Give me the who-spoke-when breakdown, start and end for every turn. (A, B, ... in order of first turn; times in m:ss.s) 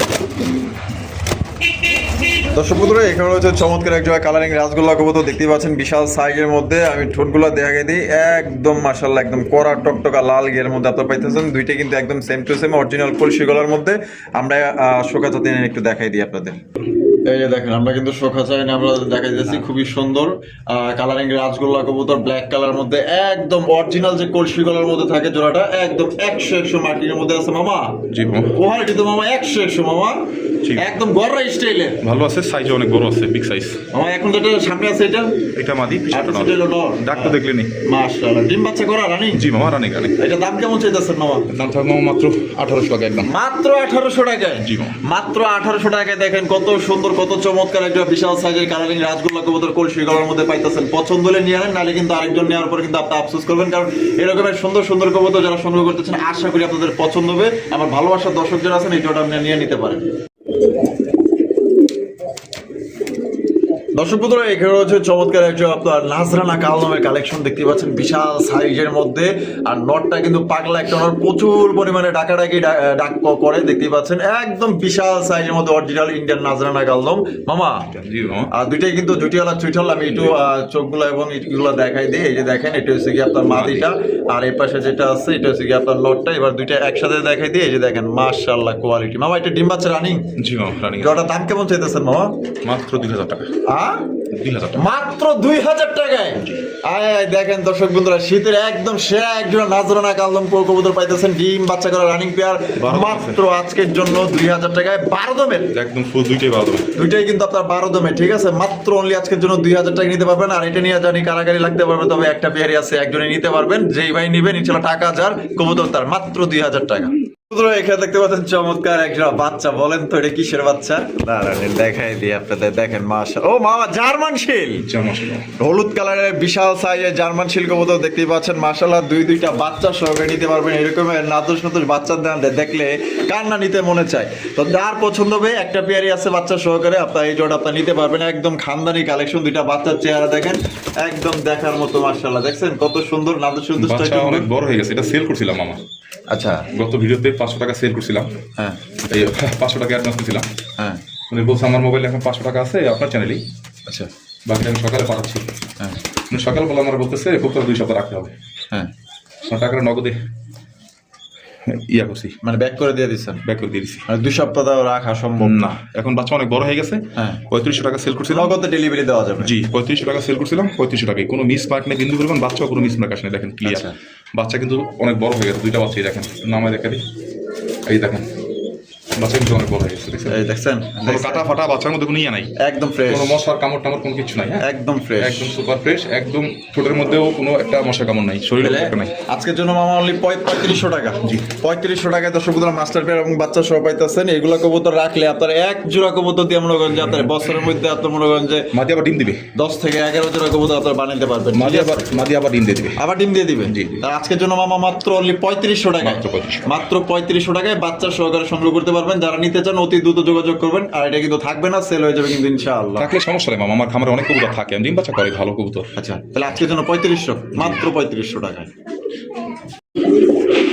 0:02.4-0:16.6 A
0:17.3-0:30.2 A
0:28.1-0:28.6 B
0:30.6-0:30.9 B
0:30.8-0:32.0 A
0:32.0-0:33.8 B
0:33.9-0:35.3 A
0:35.6-0:37.7 B
0:36.1-0:39.4 A
0:39.3-0:40.2 B
0:40.2-0:41.4 A
0:41.5-0:43.3 B
0:43.2-1:00.0 A
0:44.6-0:45.0 B
1:04.0-1:17.9 A
1:17.9-1:18.5 B
1:18.5-1:30.2 A
1:20.1-1:20.4 B
1:23.5-1:23.9 B
1:30.4-1:31.2 B
1:31.0-1:32.3 A
1:32.6-1:33.5 B
1:33.7-1:34.1 A
1:34.3-1:34.8 B
1:34.8-1:45.7 A
1:42.8-1:43.4 B
1:45.7-1:46.9 B
1:46.9-2:04.9 A
2:04.8-2:05.4 B
2:05.6-2:24.5 A
2:23.8-2:25.8 B
2:26.3-2:26.6 A
2:26.7-2:28.3 B
2:29.1-2:30.5 B
2:31.3-2:33.4 B
2:34.5-2:35.5 B
2:36.3-2:38.3 B
2:39.4-2:40.2 B
2:41.6-2:42.4 B
2:42.4-2:43.4 A
2:43.4-2:44.0 B
2:44.1-2:45.6 A
2:45.4-2:48.6 B
2:48.3-2:49.5 A
2:49.4-2:57.0 B
2:53.6-2:53.9 A
2:57.9-2:58.3 B
2:59.2-3:00.4 B
3:00.3-3:01.5 A
3:01.0-3:02.5 B
3:02.6-3:03.4 A
3:03.1-3:04.6 B
3:04.6-3:05.5 A
3:05.2-3:09.1 B
3:08.6-3:18.7 A
3:16.9-3:17.7 B
3:18.7-3:19.4 B
3:19.6-3:22.2 A
3:21.5-3:23.0 B
3:23.0-3:33.1 A
3:23.6-3:24.0 B
3:26.0-3:26.8 B
3:33.0-3:35.9 B
3:36.0-3:38.7 A
3:37.6-3:37.8 B